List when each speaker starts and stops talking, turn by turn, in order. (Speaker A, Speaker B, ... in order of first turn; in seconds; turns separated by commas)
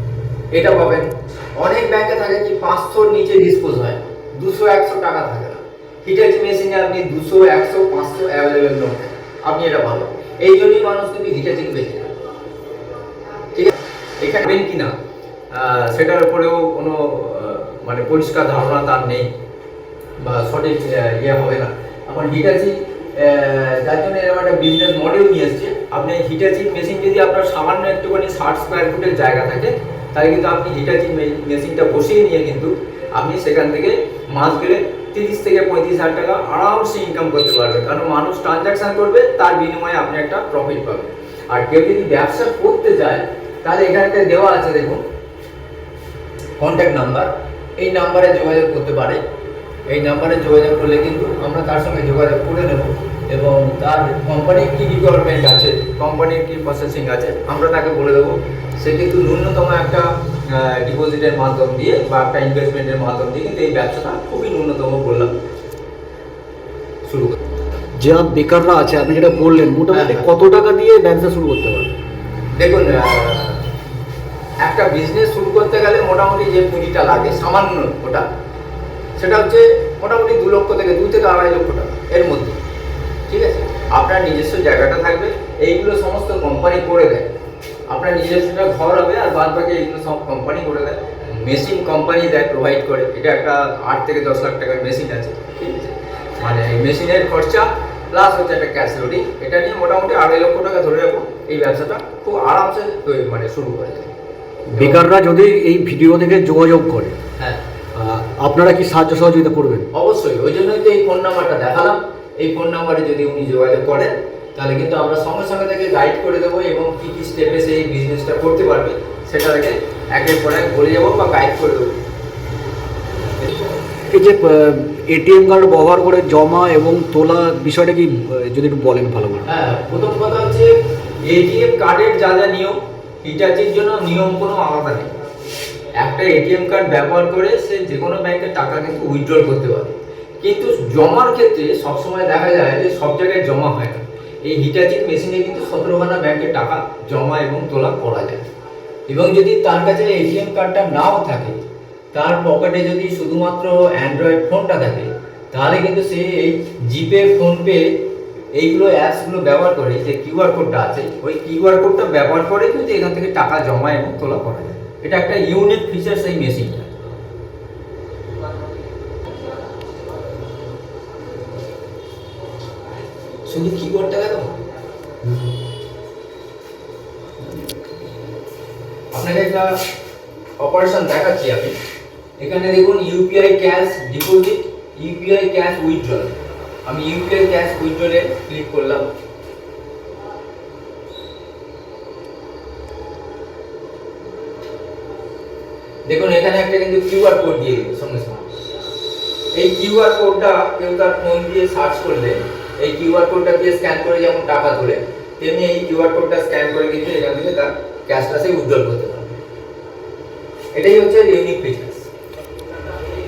Speaker A: 0.5-12.1, Speaker A: 13.5-15.0, Speaker A: 15.5-19.3, Speaker A: 20.2-45.0, Speaker A: 46.6-49.2, Speaker A: 49.9-65.3, Speaker A: 67.1-67.4, Speaker B: 68.0-71.9, Speaker A: 69.9-70.3, Speaker A: 72.5-73.7, Speaker A: 74.6-78.3, Speaker A: 79.2-82.6, Speaker A: 83.3-87.3, Speaker A: 87.9-104.1, Speaker B: 104.7-107.2, Speaker A: 104.8-105.0, Speaker B: 108.0-109.9, Speaker A: 109.9-121.9, Speaker B: 124.1-129.5, Speaker A: 129.5-135.1, Speaker A: 136.0-148.4, Speaker A: 149.1-151.6, Speaker A: 152.1-167.0, Speaker A: 173.4-174.6, Speaker A: 177.4-177.7, Speaker A: 179.1-179.8, Speaker A: 180.6-181.8, Speaker A: 182.4-189.1, Speaker A: 196.1-198.5, Speaker A: 199.5-209.3, Speaker A: 210.7-212.1